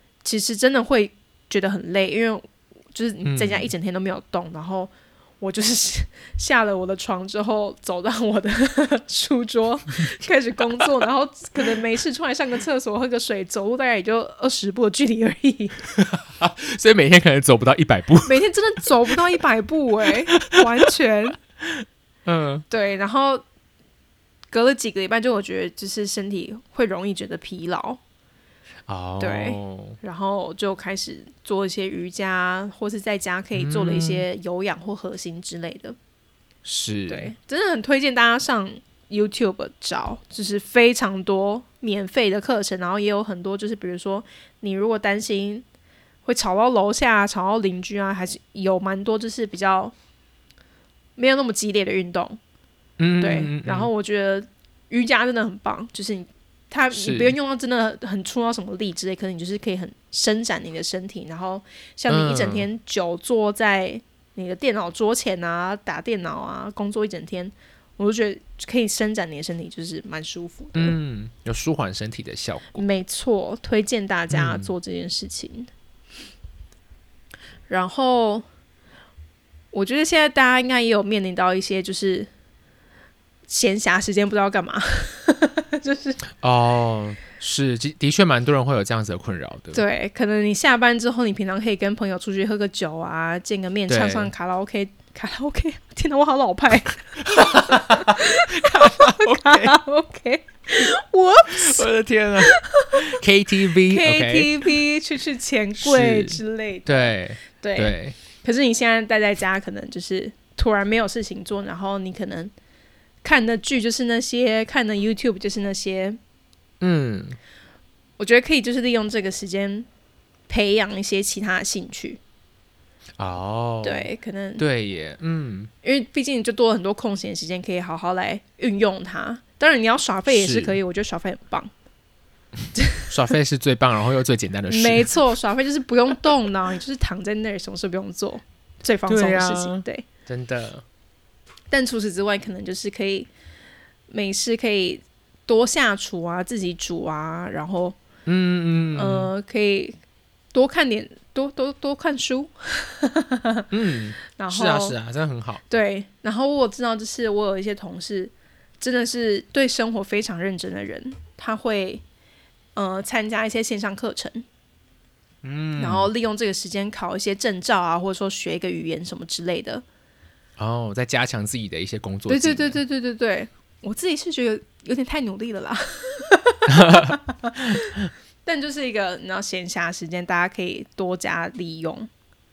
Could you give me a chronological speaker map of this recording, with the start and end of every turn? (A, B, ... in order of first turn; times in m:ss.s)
0:00.2-0:15.8 A
0:03.2-0:03.7 B
0:15.9-0:18.4 B
0:18.2-0:21.4 A
0:20.3-0:20.6 B
0:21.6-0:22.6 B
0:22.7-0:23.4 A
0:24.5-0:28.0 A
0:28.9-0:30.0 B
0:29.2-0:36.0 A
0:33.5-0:34.2 B
0:36.6-0:37.3 B
0:37.1-0:45.6 A
0:46.2-0:49.9 A
0:51.2-0:52.4 A
0:53.0-0:53.9 B
0:53.2-1:11.0 A
0:56.9-0:57.3 B
1:02.1-1:02.6 B
1:10.7-1:12.8 B
1:12.8-1:15.7 A
1:14.3-1:14.7 B
1:17.7-1:18.4 A
1:19.7-1:22.3 A
1:23.5-1:26.2 A
1:26.4-1:29.8 B
1:29.7-1:41.8 A
1:33.9-1:34.3 B
1:37.3-1:39.8 B
1:41.5-1:44.5 B
1:42.4-1:43.0 A
1:43.9-1:52.5 A
1:45.8-1:48.2 B
1:53.2-1:56.2 A
1:56.8-1:57.4 B
1:58.2-1:59.9 A
2:00.5-2:02.2 A
2:03.2-2:05.7 B
2:03.8-2:04.6 A
2:05.8-2:11.7 A
2:10.3-2:10.8 B
2:12.7-2:13.1 A
2:13.1-2:15.1 B
2:14.7-2:20.0 A
2:19.1-2:20.8 B
2:21.7-2:23.3 A
2:24.1-2:28.0 A
2:28.2-2:29.3 B
2:28.9-2:30.0 A
2:30.5-2:33.7 A
2:33.7-2:35.6 B
2:34.4-2:35.0 A
2:35.7-2:42.0 A
2:42.7-2:44.4 A
2:45.4-2:46.1 B
2:45.8-2:49.8 A
2:50.6-2:52.8 B
2:52.3-3:02.1 A
2:56.7-2:57.2 B